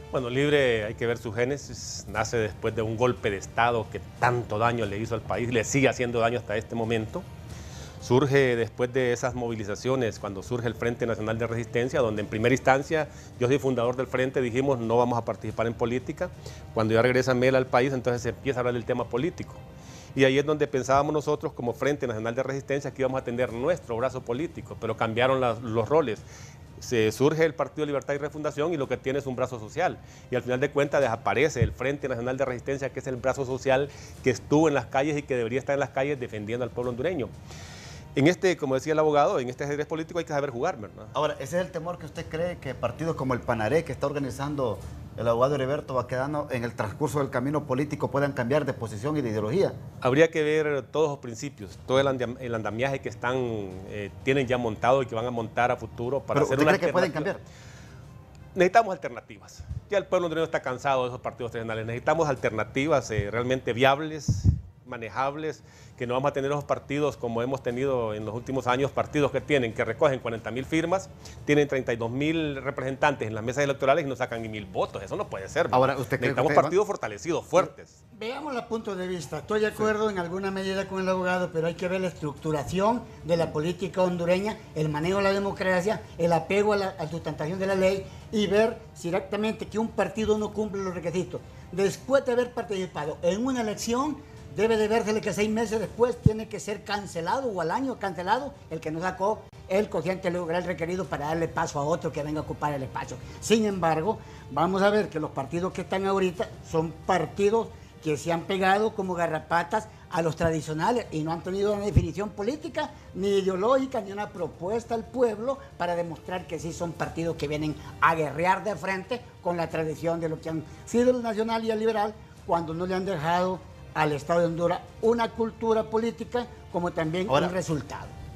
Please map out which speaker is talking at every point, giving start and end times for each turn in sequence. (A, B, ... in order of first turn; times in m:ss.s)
0:00.1-0:07.2 A
0:08.0-0:19.6 A
0:20.1-0:26.2 A
0:26.8-0:37.3 A
0:38.2-0:41.1 A
0:41.1-0:49.8 B
0:50.0-0:57.3 A
0:56.3-0:57.4 B
0:58.5-1:18.0 A
1:15.7-1:16.8 B
1:18.1-2:08.1 C
2:07.3-2:07.6 B